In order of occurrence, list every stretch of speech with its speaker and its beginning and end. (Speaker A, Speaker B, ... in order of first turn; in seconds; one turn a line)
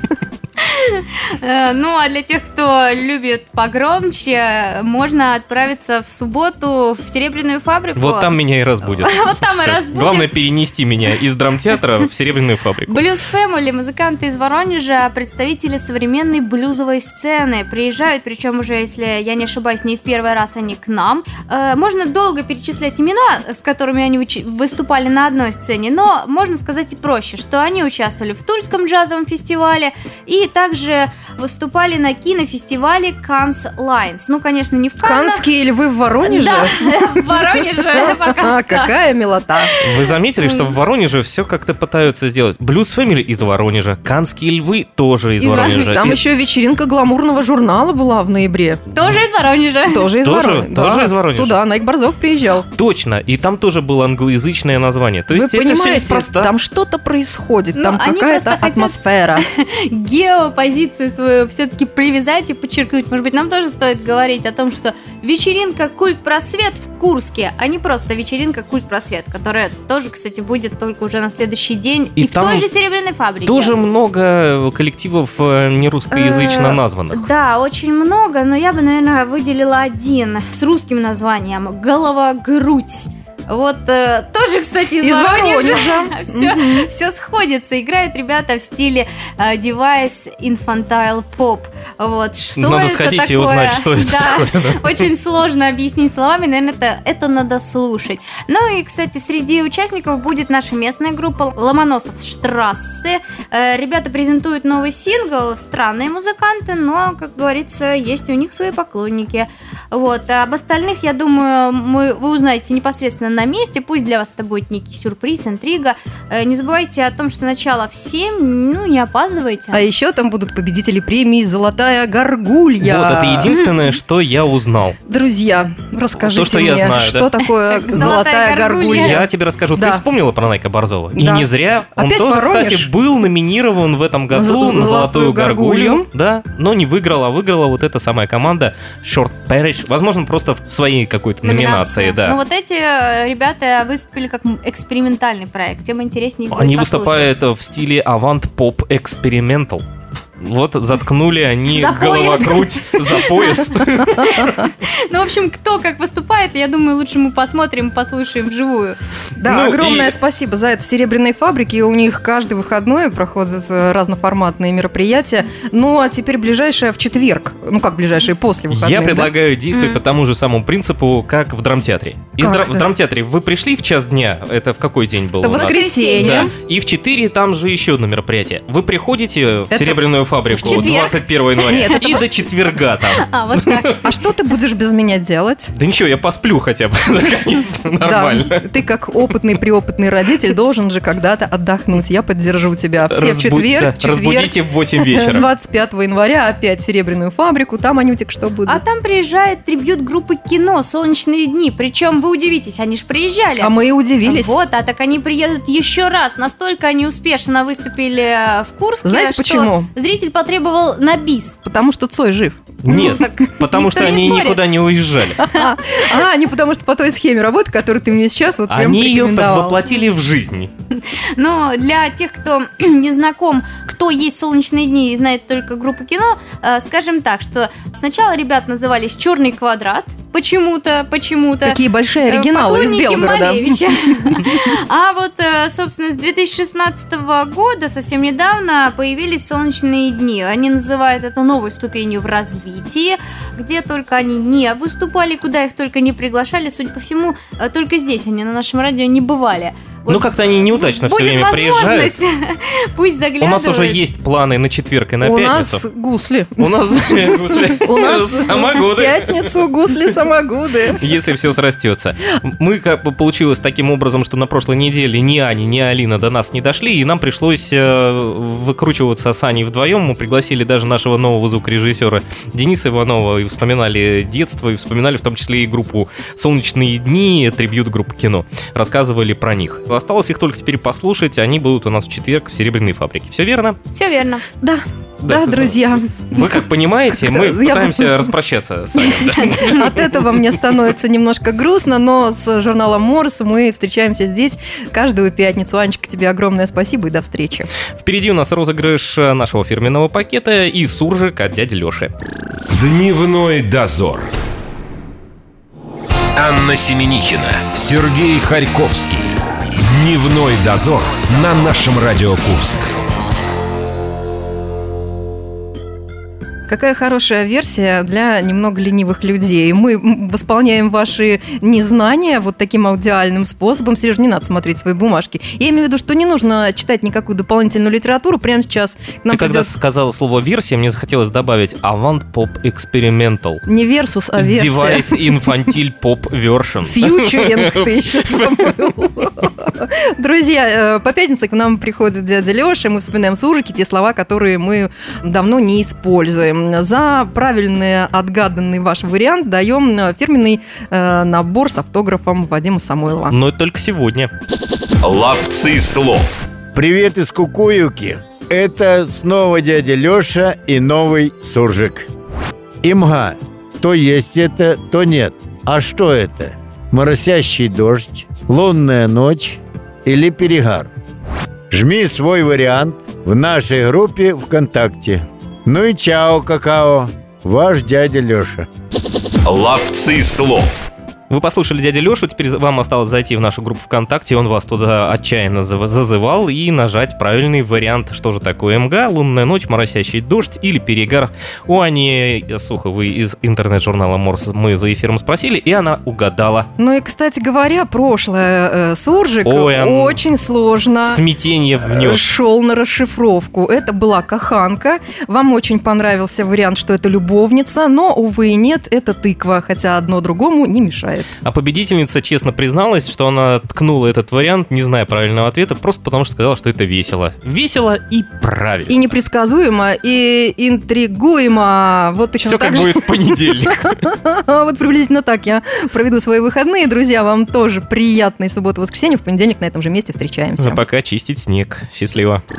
Speaker A: 0.6-10.3
Speaker B: 8.0-13.0
Speaker A: 12.9-35.5
Speaker C: 35.0-39.7
Speaker A: 36.2-38.9
Speaker A: 39.6-40.8
Speaker B: 39.8-46.2
Speaker A: 45.4-46.0
Speaker C: 45.7-48.8
Speaker A: 48.9-50.1
Speaker C: 49.9-52.6
Speaker B: 50.2-51.6
Speaker B: 52.7-56.5
Speaker C: 55.3-59.4
Speaker A: 57.7-73.7
Speaker B: 72.2-72.7
Speaker B: 73.5-77.3
Speaker A: 76.1-119.8
Speaker C: 85.0-86.9
Speaker B: 92.6-95.0
Speaker C: 119.7-123.6
Speaker B: 122.8-125.0
Speaker C: 125.1-130.0
Speaker B: 126.2-127.3
Speaker A: 127.6-129.2
Speaker B: 128.9-142.4
Speaker C: 131.1-132.9
Speaker C: 134.3-136.1
Speaker A: 141.4-147.4
Speaker B: 146.5-149.8
Speaker B: 150.4-154.6
Speaker A: 151.7-159.0
Speaker C: 159.4-169.3
Speaker B: 159.4-160.1
Speaker B: 168.7-184.0
Speaker A: 169.7-170.0
Speaker C: 172.4-172.8
Speaker C: 175.4-176.5
Speaker A: 175.7-176.4
Speaker C: 179.7-182.2
Speaker A: 180.6-182.2
Speaker A: 183.1-184.1
Speaker C: 184.0-185.7
Speaker B: 185.7-188.6
Speaker C: 188.0-198.8
Speaker B: 193.1-195.5
Speaker A: 198.6-211.6
Speaker C: 203.6-204.6
Speaker C: 209.0-209.9
Speaker C: 211.6-213.2
Speaker B: 212.8-215.4
Speaker A: 213.0-214.6
Speaker C: 215.3-219.8
Speaker A: 215.4-216.2
Speaker B: 218.7-220.7
Speaker A: 220.9-254.0
Speaker C: 231.6-233.8
Speaker B: 250.1-252.1
Speaker B: 253.4-255.8
Speaker C: 255.2-261.0
Speaker B: 256.6-260.0
Speaker B: 261.0-283.8
Speaker A: 283.9-284.4
Speaker C: 284.6-286.6
Speaker B: 285.2-290.2
Speaker C: 287.1-288.3
Speaker C: 289.1-297.7
Speaker B: 298.0-302.1
Speaker D: 302.7-304.3
Speaker D: 306.3-312.9
Speaker C: 316.7-329.7
Speaker B: 329.3-333.6
Speaker C: 333.7-335.5
Speaker B: 334.4-338.7
Speaker C: 336.8-353.4
Speaker B: 353.3-354.3
Speaker D: 355.0-356.5
Speaker E: 356.7-362.1
Speaker E: 362.8-370.9
Speaker E: 371.7-378.7
Speaker D: 379.4-380.9
Speaker B: 381.3-396.7
Speaker C: 396.8-401.2
Speaker B: 399.4-400.2
Speaker B: 401.0-402.3
Speaker C: 401.8-411.3
Speaker B: 411.4-419.1
Speaker C: 418.9-430.8
Speaker B: 422.4-424.0
Speaker B: 430.6-432.4